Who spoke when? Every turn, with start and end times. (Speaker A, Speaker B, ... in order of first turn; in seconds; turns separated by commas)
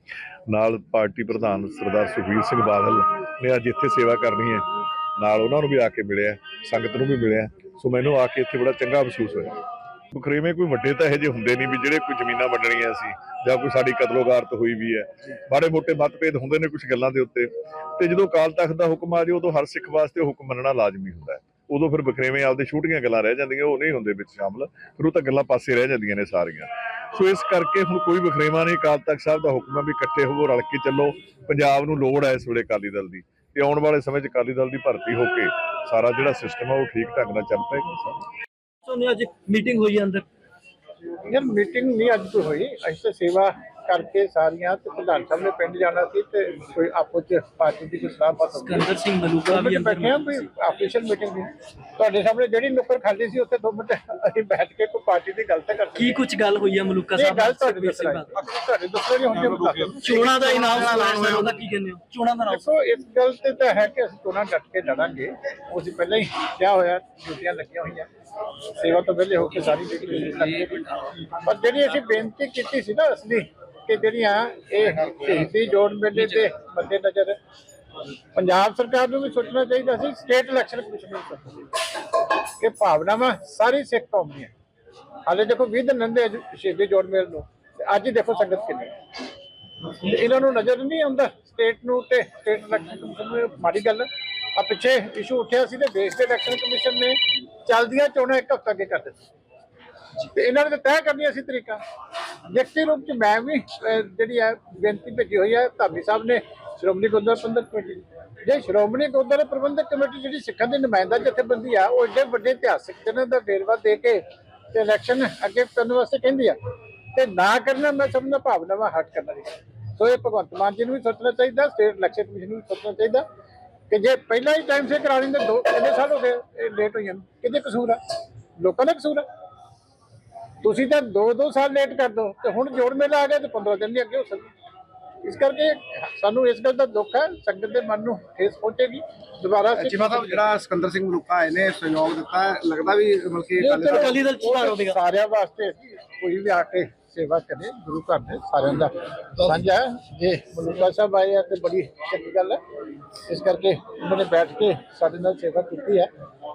Speaker A: 0.5-9.6, Speaker A: 10.1-38.2, Speaker B: 38.9-40.2, Speaker C: 41.3-48.9, Speaker B: 48.5-50.4, Speaker C: 49.4-56.2, Speaker B: 56.0-58.3, Speaker C: 57.2-60.2, Speaker D: 59.6-61.6, Speaker B: 60.0-62.6, Speaker C: 62.5-68.1, Speaker C: 68.7-77.4, Speaker C: 78.3-81.8, Speaker C: 82.6-84.5, Speaker C: 85.3-88.9, Speaker C: 89.9-99.2, Speaker C: 100.2-101.8, Speaker C: 102.5-116.6, Speaker C: 117.1-123.2, Speaker C: 123.9-128.0, Speaker C: 128.6-129.3, Speaker C: 130.6-134.5, Speaker C: 135.2-140.4, Speaker D: 139.8-144.2, Speaker C: 143.6-152.6, Speaker B: 143.9-145.0, Speaker C: 153.3-156.1